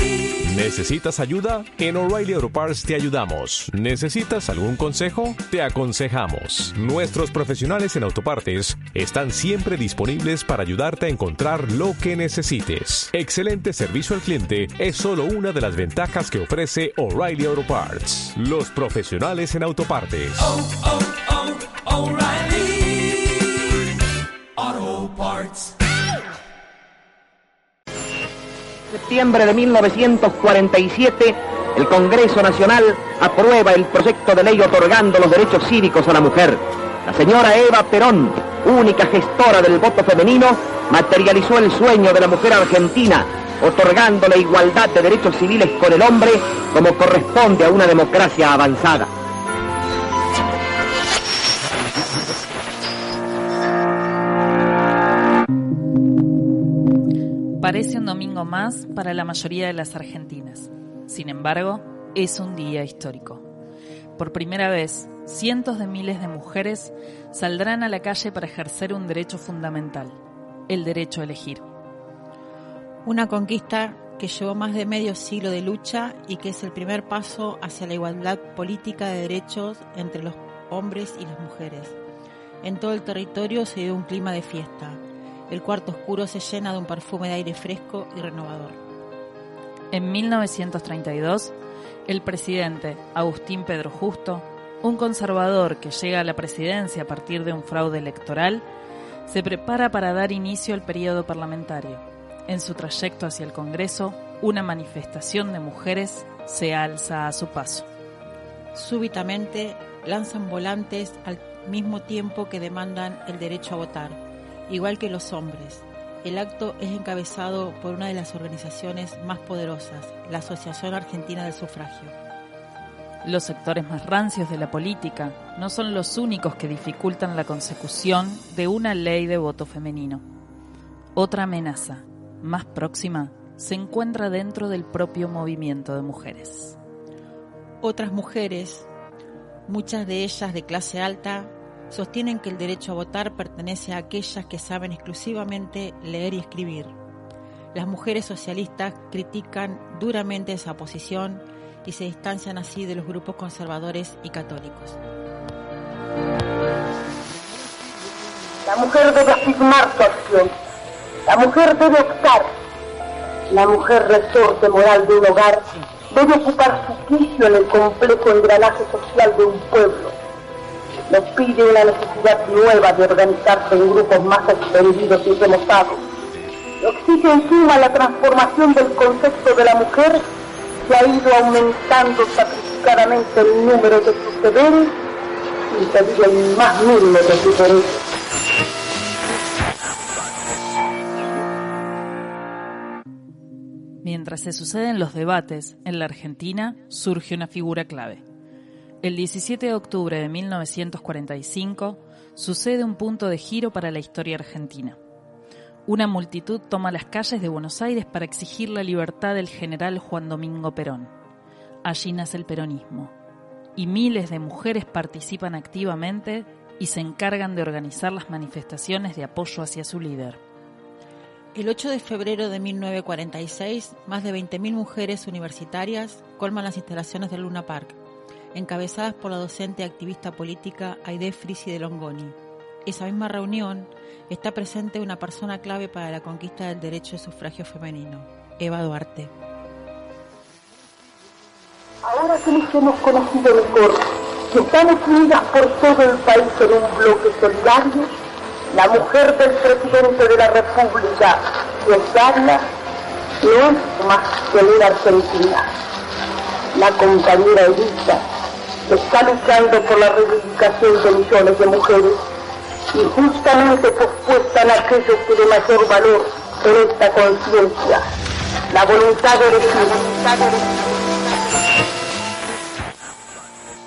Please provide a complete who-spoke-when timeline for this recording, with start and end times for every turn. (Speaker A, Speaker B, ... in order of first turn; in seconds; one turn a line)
Speaker A: 0.4-20.6
Speaker B: 28.9-49.1
Speaker C: 57.6-63.4
Speaker C: 64.2-71.6
Speaker D: 73.0-82.0
Speaker D: 82.6-88.8
Speaker C: 89.9-91.5
Speaker C: 92.1-98.6
Speaker C: 99.3-107.9
Speaker D: 108.7-122.1
Speaker C: 123.2-130.2
Speaker C: 131.1-136.8
Speaker D: 137.8-138.9
Speaker D: 139.7-147.0
Speaker D: 147.7-155.0
Speaker E: 158.7-160.5
Speaker E: 161.3-162.5
Speaker E: 163.5-170.1
Speaker E: 171.1-176.0
Speaker E: 176.8-180.2
Speaker E: 180.8-184.9
Speaker E: 185.7-187.9
Speaker C: 194.0-198.2
Speaker C: 199.0-205.0
Speaker C: 205.9-211.1
Speaker C: 211.8-213.1
Speaker C: 213.8-220.4
Speaker D: 221.5-228.0
Speaker D: 228.5-239.3
Speaker E: 242.0-248.1
Speaker E: 248.7-252.6
Speaker E: 253.4-255.6
Speaker E: 256.7-258.2
Speaker E: 258.9-262.2
Speaker E: 262.9-268.0
Speaker E: 268.7-271.6